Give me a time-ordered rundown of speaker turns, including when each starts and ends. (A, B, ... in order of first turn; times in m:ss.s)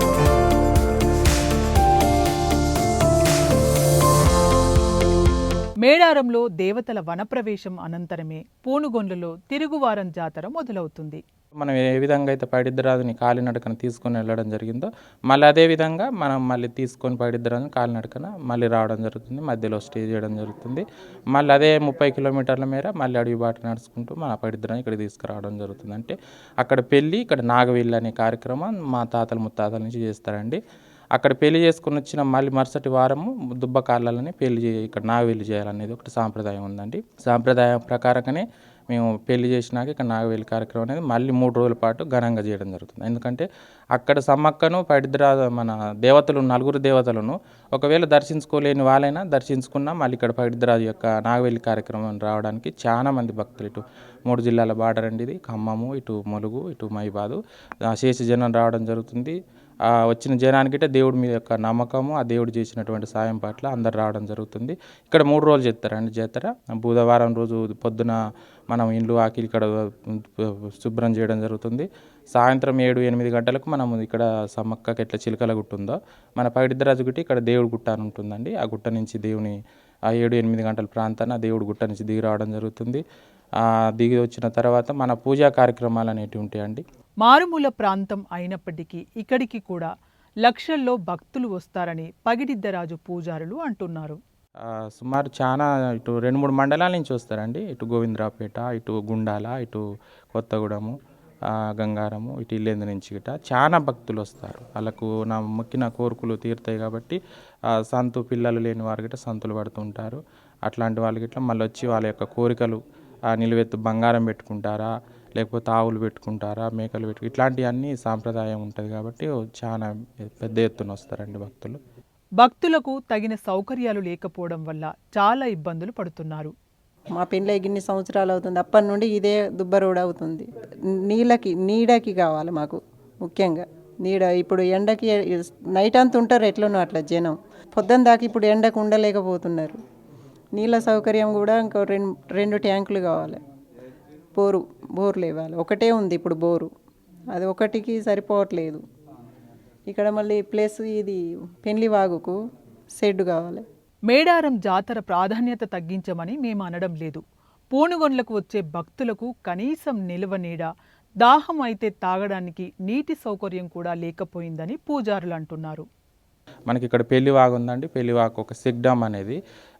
0:05.8-0:11.2 A
0:11.6-0:30.6 B
0:31.2-0:59.4 B
0:59.9-1:08.2 B
1:08.7-1:19.6 B
1:20.2-1:23.0 B
1:24.0-1:26.8 B
1:27.2-1:29.9 A
1:30.4-1:34.2 A
1:35.0-1:39.8 B
1:40.3-1:41.0 B
1:41.5-1:47.2 B
1:47.9-1:52.8 B
1:53.3-2:01.8 B
2:02.4-2:06.5 A
2:07.2-2:10.4 C
2:11.1-2:19.8 C
2:20.5-2:23.4 C
2:24.3-2:26.7 C
2:27.3-2:28.8 C
2:29.9-2:32.4 C
2:33.0-2:33.6 C
2:34.1-2:37.2 A
2:37.7-2:40.7 A
2:41.2-2:45.8 A
2:46.7-2:49.4 B